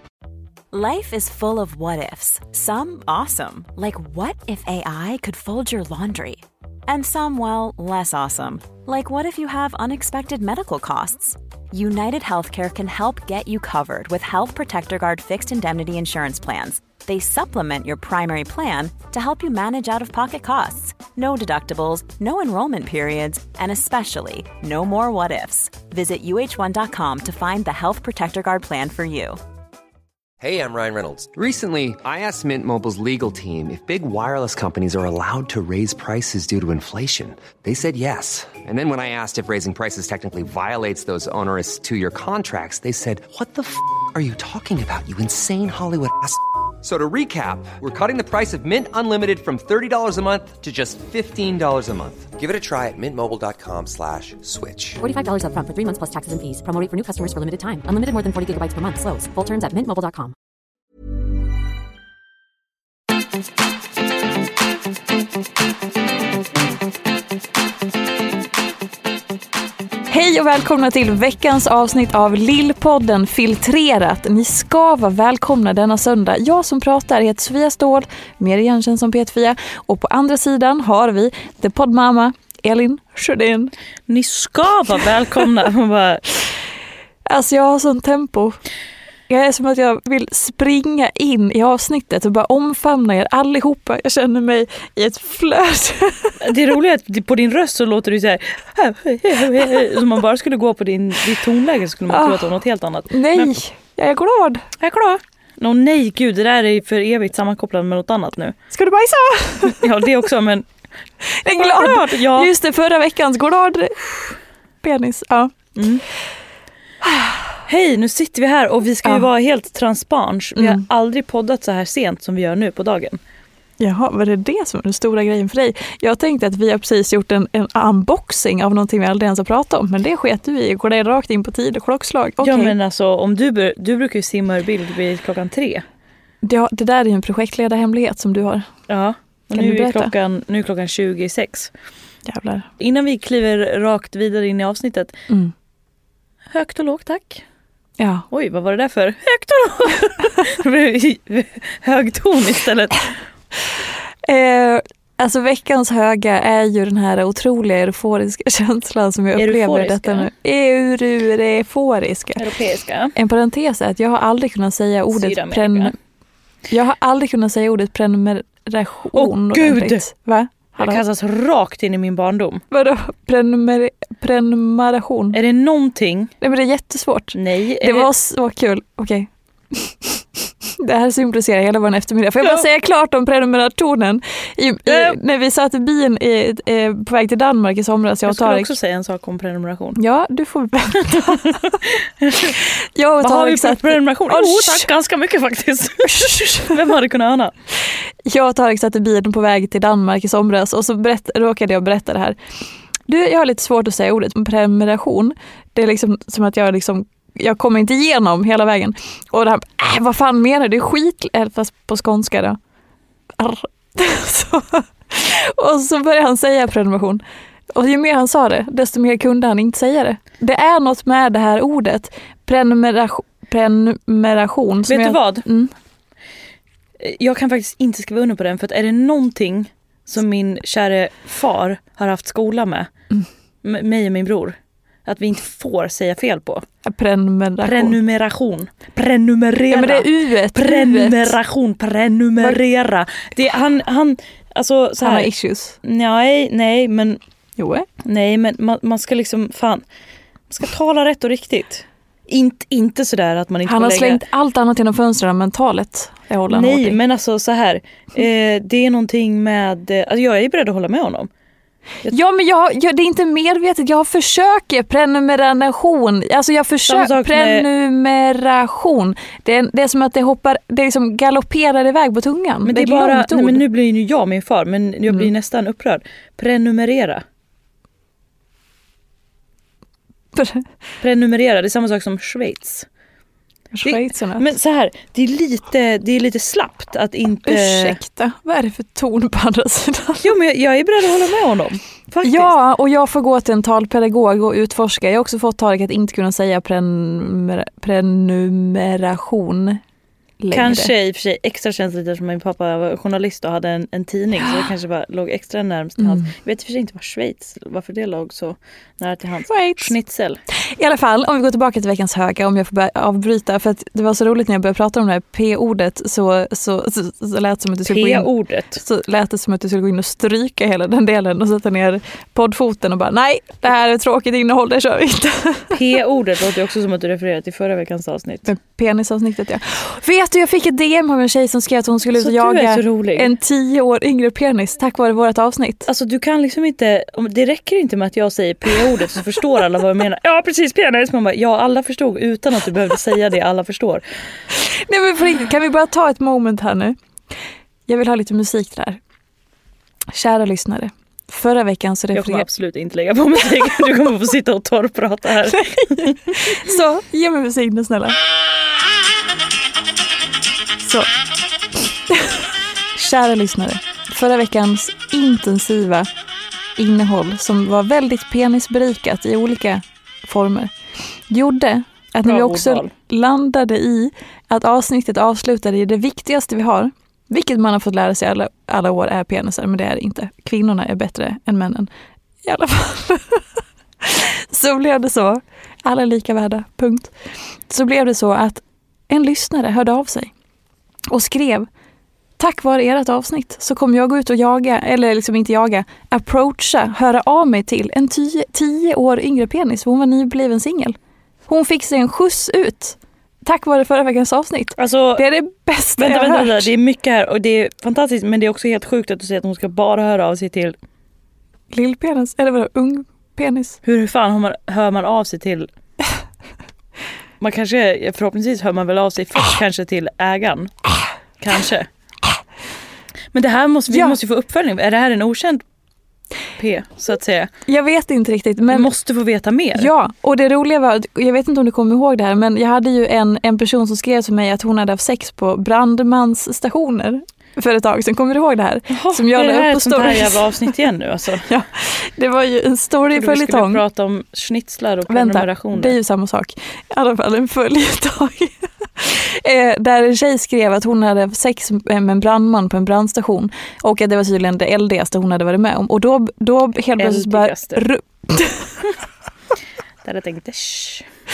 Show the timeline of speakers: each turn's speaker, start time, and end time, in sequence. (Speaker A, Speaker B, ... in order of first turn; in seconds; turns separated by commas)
Speaker A: 0.7-29.4, Speaker B: 30.4-55.0, Speaker C: 55.0-60.4, Speaker D: 70.1-83.7, Speaker E: 84.1-86.2, Speaker D: 87.3-88.6, Speaker D: 89.3-96.4, Speaker E: 96.4-103.5, Speaker D: 102.1-102.4, Speaker D: 103.1-104.7, Speaker E: 104.8-108.6, Speaker D: 108.7-109.9, Speaker E: 109.6-110.7, Speaker D: 111.3-115.6, Speaker E: 111.5-112.5, Speaker E: 115.8-116.0, Speaker D: 117.0-117.6, Speaker E: 117.7-123.2, Speaker D: 120.6-120.8, Speaker D: 123.8-132.8, Speaker E: 132.4-135.8, Speaker D: 136.4-138.7, Speaker E: 138.9-141.7, Speaker D: 139.5-140.1, Speaker D: 142.3-142.7, Speaker E: 142.8-145.2, Speaker E: 146.5-147.4, Speaker D: 148.0-148.3, Speaker E: 148.3-153.1, Speaker D: 154.2-162.4, Speaker E: 159.4-160.3, Speaker E: 162.4-163.1, Speaker D: 163.2-165.9, Speaker E: 165.1-165.9, Speaker D: 166.7-171.0, Speaker E: 169.1-170.0, Speaker E: 170.8-172.6, Speaker D: 172.7-175.4, Speaker E: 175.3-176.3, Speaker D: 176.4-180.2, Speaker E: 177.3-178.1, Speaker D: 180.8-188.7, Speaker E: 184.9-185.2, Speaker E: 188.3-190.0, Speaker D: 190.0-191.8, Speaker E: 191.1-192.6, Speaker D: 192.7-194.9, Speaker E: 193.2-197.5, Speaker D: 196.2-196.6, Speaker D: 198.3-202.4, Speaker D: 203.1-212.6, Speaker D: 213.4-217.2, Speaker D: 217.7-225.7, Speaker E: 224.9-225.5, Speaker E: 227.0-232.9, Speaker E: 233.6-236.7, Speaker D: 236.8-238.0, Speaker E: 237.6-245.3, Speaker D: 239.7-241.3, Speaker D: 245.0-245.8, Speaker E: 245.8-247.2, Speaker D: 247.6-247.9, Speaker E: 248.0-249.8, Speaker E: 250.5-254.2, Speaker D: 253.7-257.0, Speaker E: 256.5-261.3, Speaker D: 262.1-273.6, Speaker E: 266.9-267.7, Speaker E: 272.6-277.2, Speaker D: 280.3-280.7, Speaker E: 281.0-282.9, Speaker D: 283.7-284.5, Speaker E: 283.8-288.0, Speaker D: 287.4-290.3, Speaker E: 290.2-292.5, Speaker D: 292.2-299.8, Speaker D: 300.4-300.9, Speaker E: 300.5-310.4, Speaker D: 306.0-306.3, Speaker D: 309.5-309.9, Speaker D: 310.6-325.7, Speaker E: 317.9-318.8, Speaker E: 325.7-328.5, Speaker D: 328.4-335.9, Speaker E: 332.2-333.3, Speaker E: 335.9-344.0, Speaker D: 344.5-347.0, Speaker D: 347.9-349.0, Speaker D: 350.1-352.5, Speaker E: 352.1-356.4, Speaker D: 355.6-358.2, Speaker D: 360.8-361.1, Speaker D: 362.9-366.1, Speaker D: 366.8-370.7, Speaker D: 371.3-381.9, Speaker E: 372.2-372.9, Speaker D: 382.4-383.4, Speaker D: 384.0-387.1, Speaker D: 387.7-390.3, Speaker D: 391.1-391.7, Speaker D: 392.4-401.0, Speaker D: 401.5-406.7, Speaker E: 404.8-405.2, Speaker E: 406.0-410.8, Speaker D: 411.7-413.8, Speaker E: 413.8-415.7, Speaker E: 417.4-420.7, Speaker E: 421.4-421.9, Speaker E: 423.3-425.6, Speaker D: 423.9-424.2, Speaker E: 426.6-427.5, Speaker D: 427.7-428.9, Speaker E: 428.7-429.9, Speaker D: 429.8-440.4, Speaker E: 438.9-441.5, Speaker D: 441.5-443.8, Speaker E: 443.1-446.0, Speaker D: 445.1-458.7, Speaker E: 457.0-457.8, Speaker E: 460.0-461.1